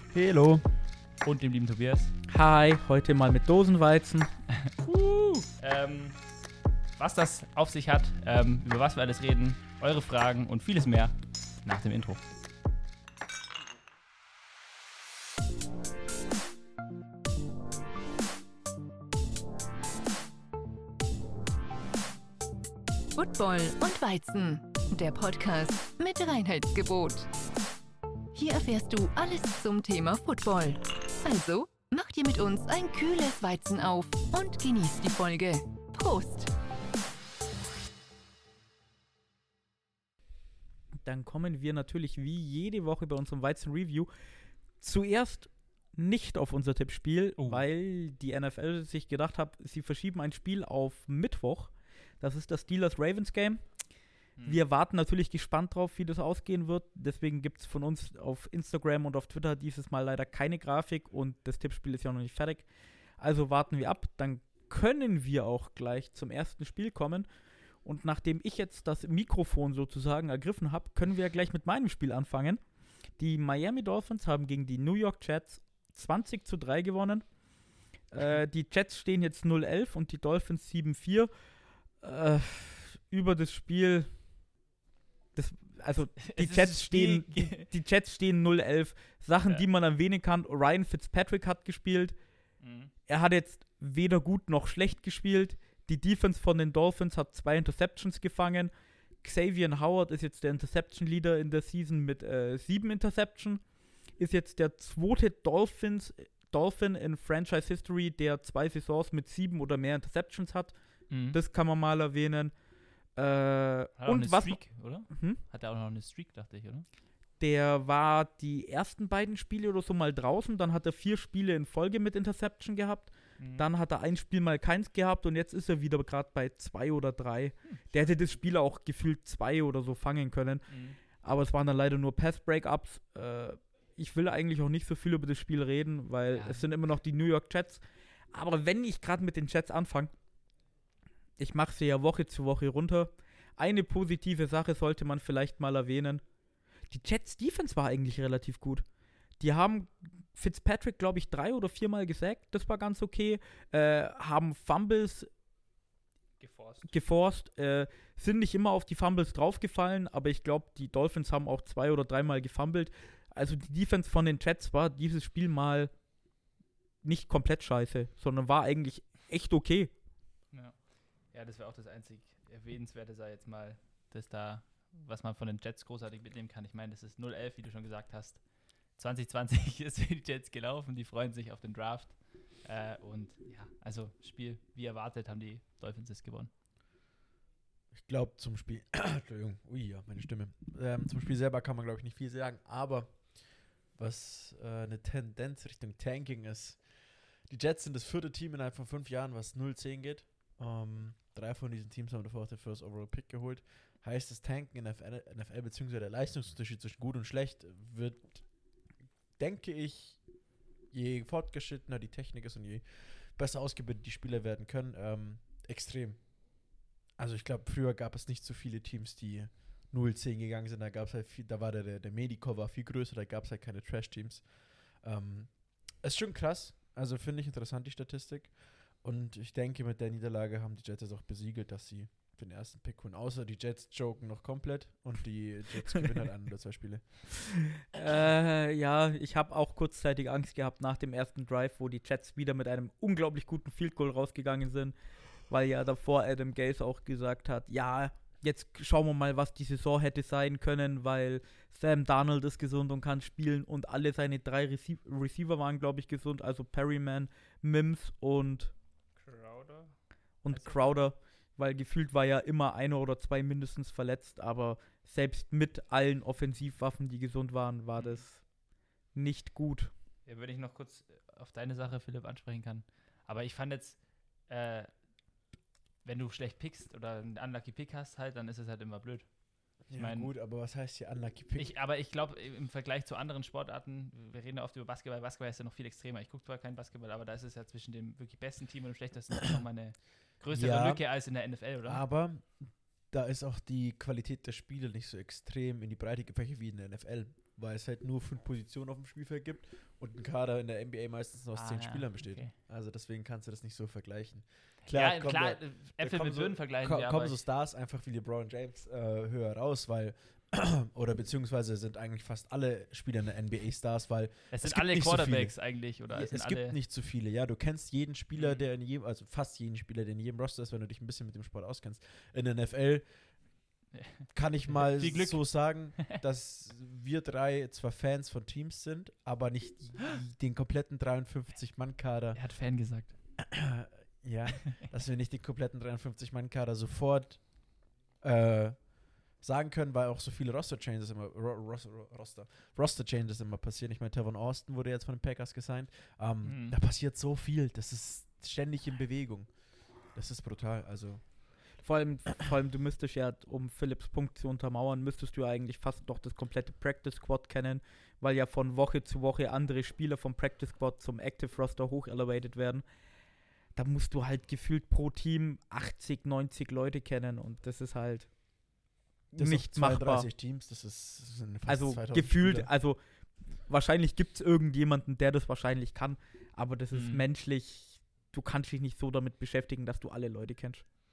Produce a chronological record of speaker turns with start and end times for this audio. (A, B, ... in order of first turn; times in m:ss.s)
0:00.1-0:00.6 A
0:01.2-0:02.2 B
0:02.3-0:05.4 C
0:05.6-0:06.2 B
0:07.0-0:12.4 B
0:23.2-0:27.3 D
0:28.3-0:36.5 D
0:41.0-1:17.4 C
0:47.4-0:47.6 B
0:54.4-0:54.6 B
1:18.0-1:24.2 C
1:25.4-1:32.2 C
1:26.2-1:27.7 B
1:32.6-1:32.9 B
1:33.1-1:55.4 C
1:51.1-1:51.4 B
1:54.0-1:56.8 B
1:57.4-2:20.2 C
2:03.4-2:03.7 B
2:07.6-2:08.0 B
2:10.7-2:11.0 B
2:16.3-2:16.7 B
2:21.4-2:26.2 C
2:26.9-2:28.8 C
2:29.4-2:35.3 C
2:36.4-2:36.9 B
2:36.9-2:45.9 C
2:47.0-2:49.9 C
2:50.5-3:06.5 B
3:07.9-3:57.5 A
3:57.9-4:18.7 C
4:19.2-4:21.0 B
4:20.4-4:29.9 C
4:28.0-4:28.3 B
4:30.2-4:35.0 B
4:36.0-4:40.3 B
4:39.8-4:41.7 A
4:41.6-4:52.0 B
4:50.5-4:51.3 A
4:51.8-5:23.6 A
5:01.6-5:02.5 B
5:04.9-5:07.4 B
5:14.5-5:16.8 B
5:18.3-5:18.7 B
5:23.9-5:26.2 B
5:24.3-5:32.4 A
5:32.4-5:33.2 B
5:33.4-5:51.8 A
5:46.4-5:46.8 B
5:51.8-6:08.8 C
6:09.3-6:12.7 A
6:09.4-6:10.3 C
6:11.7-6:20.8 C
6:16.9-6:17.2 B